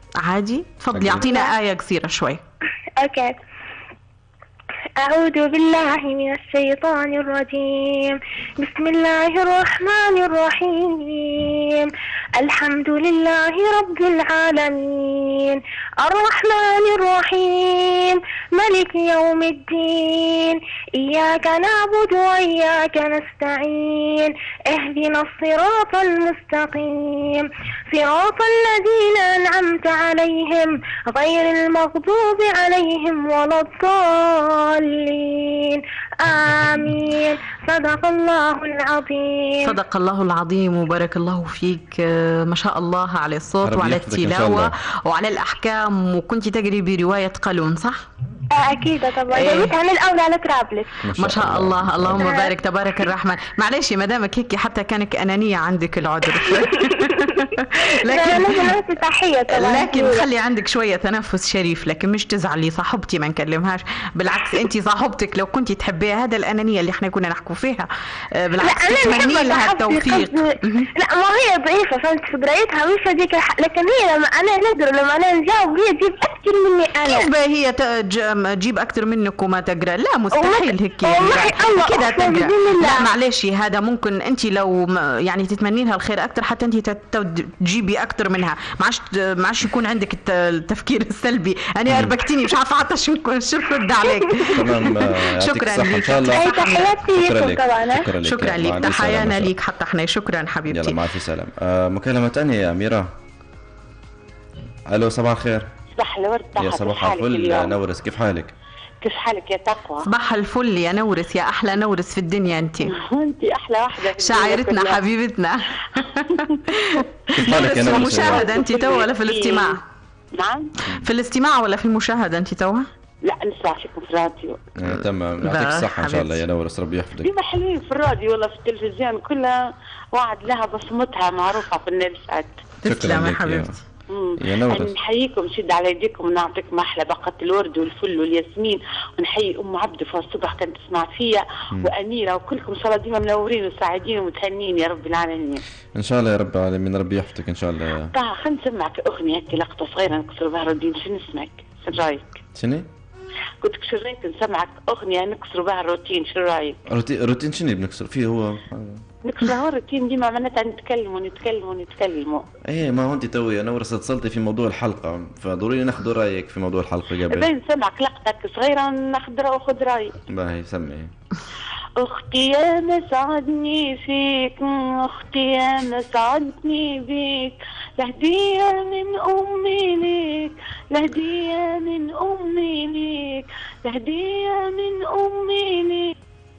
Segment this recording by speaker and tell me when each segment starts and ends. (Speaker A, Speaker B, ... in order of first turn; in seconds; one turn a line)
Speaker A: 0.2-2.4
Speaker B: 0.9-1.3
Speaker C: 1.2-1.5
Speaker C: 3.0-3.4
Speaker C: 5.0-39.7
Speaker A: 39.6-48.0
Speaker B: 43.6-44.7
Speaker C: 48.5-51.0
Speaker A: 49.3-49.8
Speaker B: 51.0-52.3
Speaker A: 51.1-58.8
Speaker C: 52.2-52.5
Speaker C: 56.4-60.2
Speaker A: 59.5-70.9
Speaker C: 68.6-77.3
Speaker A: 77.0-97.0
Speaker C: 80.3-83.1
Speaker B: 91.9-92.2
Speaker B: 94.5-99.5
Speaker C: 96.3-98.1
Speaker A: 98.2-101.0
Speaker B: 100.7-103.1
Speaker B: 104.9-105.7
Speaker D: 105.9-107.8
Speaker B: 106.6-108.5
Speaker D: 109.0-110.1
Speaker A: 110.0-112.9
Speaker D: 112.8-115.0
Speaker A: 114.2-119.8
Speaker D: 116.3-119.8
Speaker B: 117.3-118.6
Speaker D: 120.3-120.7
Speaker A: 120.8-122.8
Speaker D: 123.2-124.6
Speaker B: 124.8-127.3
Speaker A: 125.4-126.4
Speaker D: 127.2-129.6
Speaker D: 130.1-132.6
Speaker A: 132.8-133.8
Speaker B: 132.8-133.8
Speaker D: 134.1-145.6
Speaker B: 134.4-134.9
Speaker B: 145.9-148.1
Speaker D: 148.1-152.4
Speaker B: 152.5-152.8
Speaker D: 153.6-156.8
Speaker B: 156.9-159.0
Speaker D: 159.2-162.5
Speaker B: 162.6-167.5
Speaker D: 167.3-170.2
Speaker B: 170.3-171.1
Speaker D: 172.0-186.1